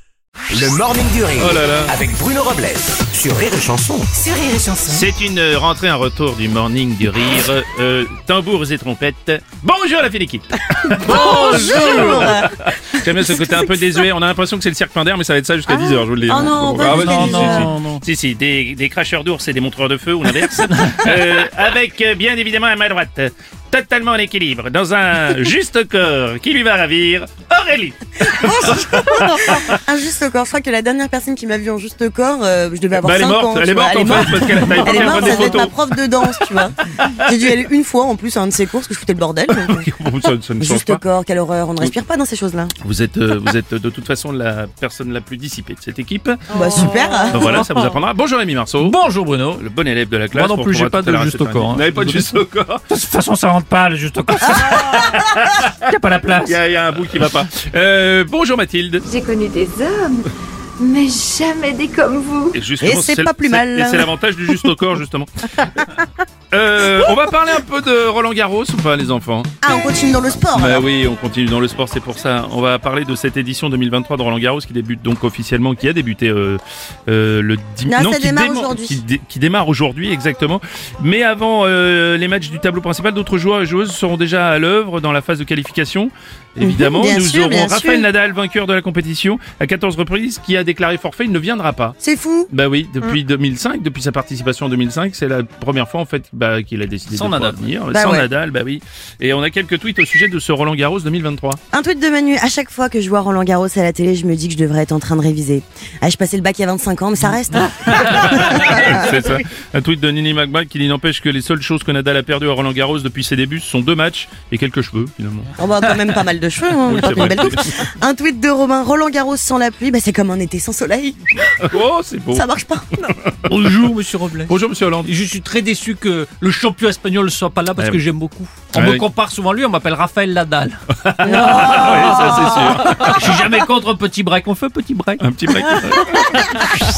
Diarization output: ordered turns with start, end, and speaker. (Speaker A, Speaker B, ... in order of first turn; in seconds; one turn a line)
Speaker A: 0.5-4.1
Speaker B: 1.4-1.9
Speaker C: 4.2-5.0
Speaker B: 4.9-29.8
Speaker C: 10.9-13.7
Speaker D: 11.2-12.3
Speaker C: 15.7-17.7
Speaker D: 16.8-18.0
Speaker C: 28.3-39.9
Speaker B: 33.0-35.8
Speaker B: 37.0-37.5
Speaker B: 39.5-41.0
Speaker C: 40.6-42.7
Speaker B: 42.8-49.0
Speaker C: 46.5-47.6
Speaker D: 46.7-47.9
Speaker D: 48.8-49.6
Speaker B: 49.6-52.8
Speaker D: 50.3-56.6
Speaker B: 54.4-55.7
Speaker C: 54.7-54.9
Speaker B: 56.4-59.0
Speaker E: 59.1-62.6
Speaker B: 62.5-65.8
Speaker C: 62.8-64.1
Speaker C: 65.6-66.0
Speaker B: 66.5-69.5
Speaker C: 69.6-70.9
Speaker B: 70.5-92.0
Speaker C: 77.9-79.0
Speaker C: 86.6-88.1
Speaker C: 92.0-92.5
Speaker B: 92.5-101.6
Speaker D: 97.1-97.6
Speaker C: 97.9-98.3
Speaker C: 101.7-109.3
Speaker D: 108.0-108.8
Speaker B: 108.0-115.5
Speaker C: 115.6-121.5
Speaker B: 116.8-117.7
Speaker B: 121.6-122.5
Speaker C: 122.3-123.1
Speaker B: 123.0-123.5
Speaker D: 123.5-124.5
Speaker B: 124.5-125.1
Speaker D: 125.0-135.2
Speaker B: 127.8-128.0
Speaker B: 128.7-129.1
Speaker B: 131.1-133.4
Speaker C: 131.5-132.8
Speaker B: 135.2-136.6
Speaker D: 136.2-136.8